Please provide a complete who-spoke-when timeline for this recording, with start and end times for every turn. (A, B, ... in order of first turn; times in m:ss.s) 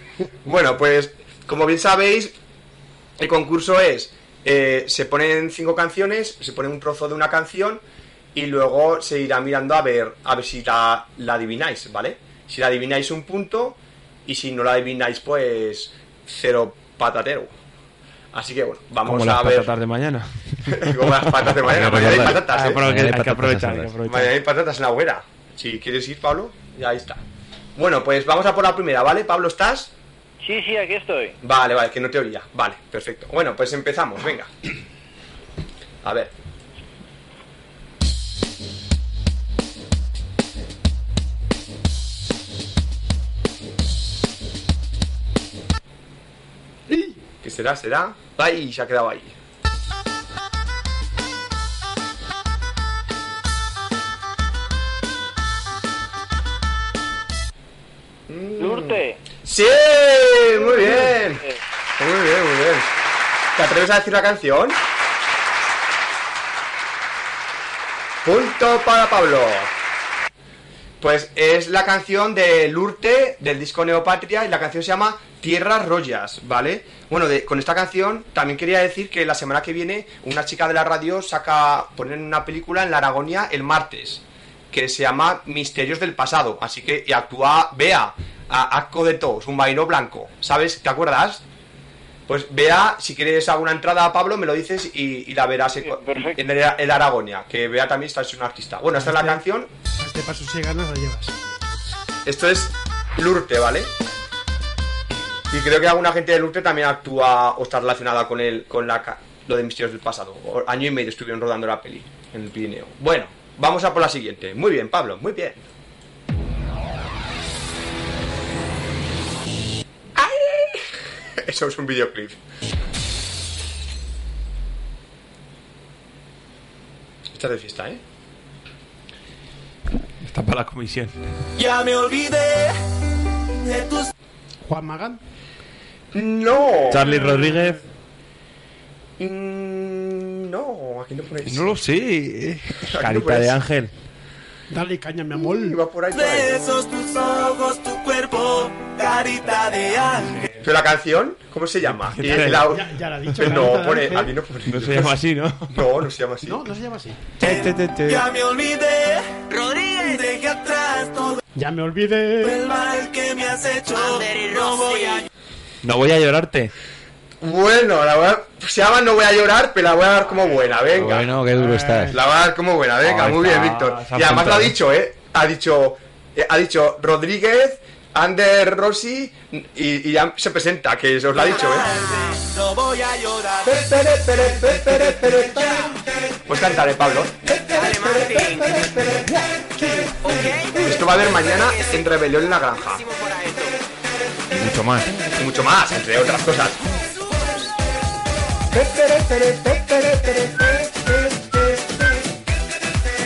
0:00.4-0:02.3 A
0:03.2-0:07.8 A
0:08.3-0:17.6 A
0:18.3-0:19.7 A
0:19.0-0:21.3 B
0:20.7-0:22.8 A
0:21.6-0:23.9 C
0:22.0-0:24.3 B
0:24.0-0:27.2 A
0:27.8-0:29.9 A
0:30.4-0:31.4 D
0:31.4-0:34.5 A
0:36.0-0:36.3 A
0:46.9-0:47.2 E
0:47.4-0:49.3 A
0:58.3-1:01.4 A
0:58.6-0:59.2 D
1:00.8-1:01.6 D
1:02.0-1:02.9 A
1:03.5-1:04.8 A
1:08.2-1:09.7 A
1:11.0-1:31.4 A
1:32.3-1:39.7 A
1:35.8-1:36.4 D
1:39.0-1:39.4 E
1:40.0-1:41.3 E
1:42.2-1:43.9 A
1:45.5-1:55.6 A
2:00.2-2:02.4 A
2:07.3-2:08.0 A
2:10.2-2:11.2 B
2:11.6-2:12.8 F
2:13.5-2:14.1 F
2:14.6-2:15.2 E
2:16.1-2:17.1 A
2:16.9-2:17.8 B
2:17.1-2:17.7 E
2:19.2-2:21.8 A
2:21.5-2:23.9 B
2:22.9-2:23.5 A
2:24.7-2:25.8 E
2:25.4-2:26.5 A
2:26.1-2:30.4 F
2:30.6-2:35.2 A
2:31.9-2:32.7 B
2:32.7-2:34.4 E
2:33.3-2:33.6 B
2:34.7-2:35.7 B
2:35.7-2:36.6 A
2:36.4-2:37.3 E
2:37.4-2:38.2 B
2:37.4-2:41.4 F
2:41.6-2:42.6 E
2:42.4-2:45.2 F
2:45.8-2:46.7 B
2:47.4-2:51.3 A
2:50.9-2:52.2 C
2:51.4-2:52.2 E
2:52.1-3:02.2 A
2:53.0-2:54.8 B
3:01.3-3:06.0 F
3:03.6-3:05.9 A
3:06.4-3:09.4 A
3:07.7-3:08.9 F
3:10.3-3:10.9 F
3:10.7-3:13.0 A
3:13.2-3:13.7 F
3:14.5-3:15.1 B
3:15.3-3:16.8 A
3:18.7-3:22.2 A